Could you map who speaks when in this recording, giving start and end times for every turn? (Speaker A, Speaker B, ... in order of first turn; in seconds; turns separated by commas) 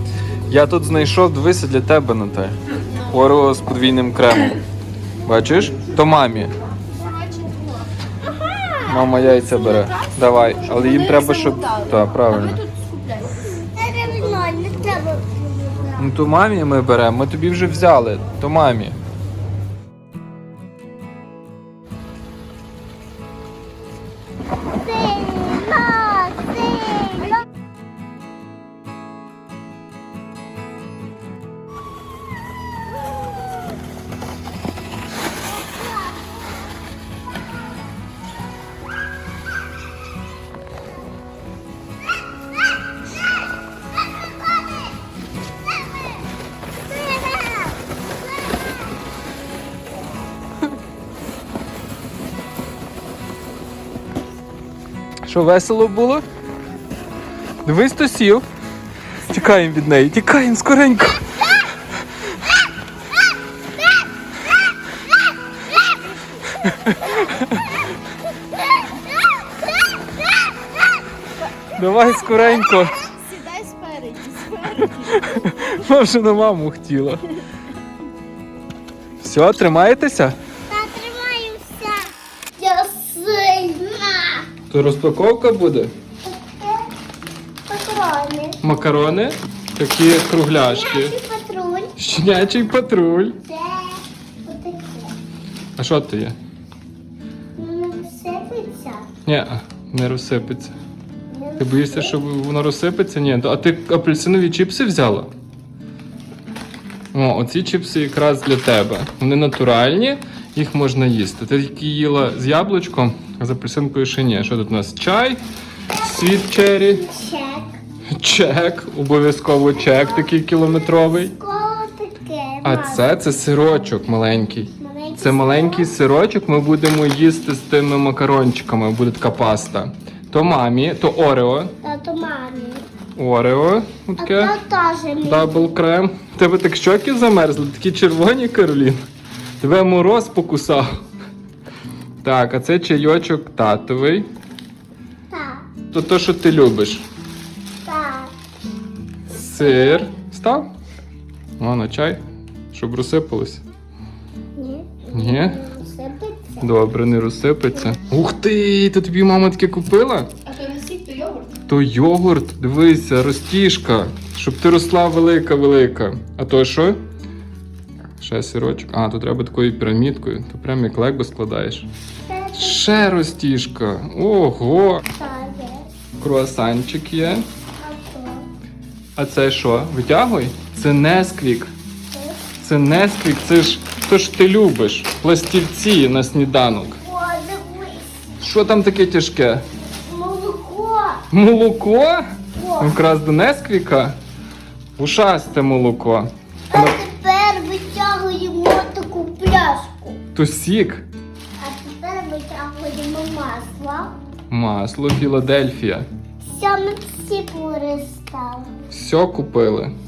Speaker A: 0.5-4.6, Speaker A: 5.2-6.5, Speaker B: 7.0-7.9, Speaker A: 8.8-12.6, Speaker B: 9.4-10.1, Speaker B: 10.6-13.5, Speaker C: 13.5-16.1, Speaker A: 16.0-19.0, Speaker C: 24.7-27.4, Speaker C: 35.5-36.3, Speaker C: 43.9-45.0, Speaker C: 45.6-46.3, Speaker C: 46.9-47.9, Speaker A: 55.2-56.2, Speaker A: 57.6-58.5, Speaker A: 59.2-61.2, Speaker A: 66.7-67.7, Speaker A: 71.8-73.0, Speaker B: 73.2-75.3, Speaker A: 75.1-77.3, Speaker A: 79.2-80.3, Speaker C: 80.7-84.5, Speaker A: 84.7-85.9, Speaker C: 86.2-86.9, Speaker C: 87.7-88.6, Speaker A: 88.6-91.2, Speaker C: 90.5-91.9, Speaker A: 92.0-93.4, Speaker C: 93.5-95.2, Speaker A: 95.8-96.3, Speaker C: 97.6-99.1, Speaker A: 99.2-100.7, Speaker C: 101.3-102.2, Speaker A: 101.6-105.3, Speaker A: 107.1-115.4, Speaker C: 115.9-117.8, Speaker A: 116.0-117.0, Speaker A: 118.2-121.3, Speaker C: 119.8-123.1, Speaker A: 122.6-131.7, Speaker C: 124.8-126.0, Speaker C: 131.8-132.8, Speaker A: 133.2-134.5, Speaker C: 134.2-135.7, Speaker A: 135.2-139.0, Speaker A: 139.6-140.9, Speaker A: 142.2-144.3, Speaker C: 145.3-145.7, Speaker A: 145.9-147.1, Speaker C: 147.8-148.3, Speaker A: 149.3-150.7, Speaker C: 149.6-150.1, Speaker A: 151.6-152.2, Speaker A: 152.7-153.6, Speaker C: 154.6-156.7, Speaker A: 155.1-155.6, Speaker A: 156.6-160.3, Speaker B: 160.4-161.5, Speaker A: 161.7-167.0, Speaker A: 168.2-171.9, Speaker C: 172.2-173.0, Speaker A: 172.5-175.0, Speaker C: 175.1-175.9, Speaker A: 176.2-177.4, Speaker C: 177.8-178.4, Speaker A: 179.2-181.7, Speaker C: 182.1-182.5, Speaker A: 182.6-187.0, Speaker C: 187.0-188.3, Speaker A: 188.4-189.6, Speaker C: 190.0-191.2, Speaker A: 191.3-192.2, Speaker C: 192.5-193.0, Speaker A: 192.8-194.2, Speaker A: 195.0-197.0, Speaker C: 196.7-200.2, Speaker A: 200.3-201.1, Speaker C: 201.6-204.1, Speaker A: 204.5-206.1, Speaker C: 206.4-208.7, Speaker A: 208.9-209.9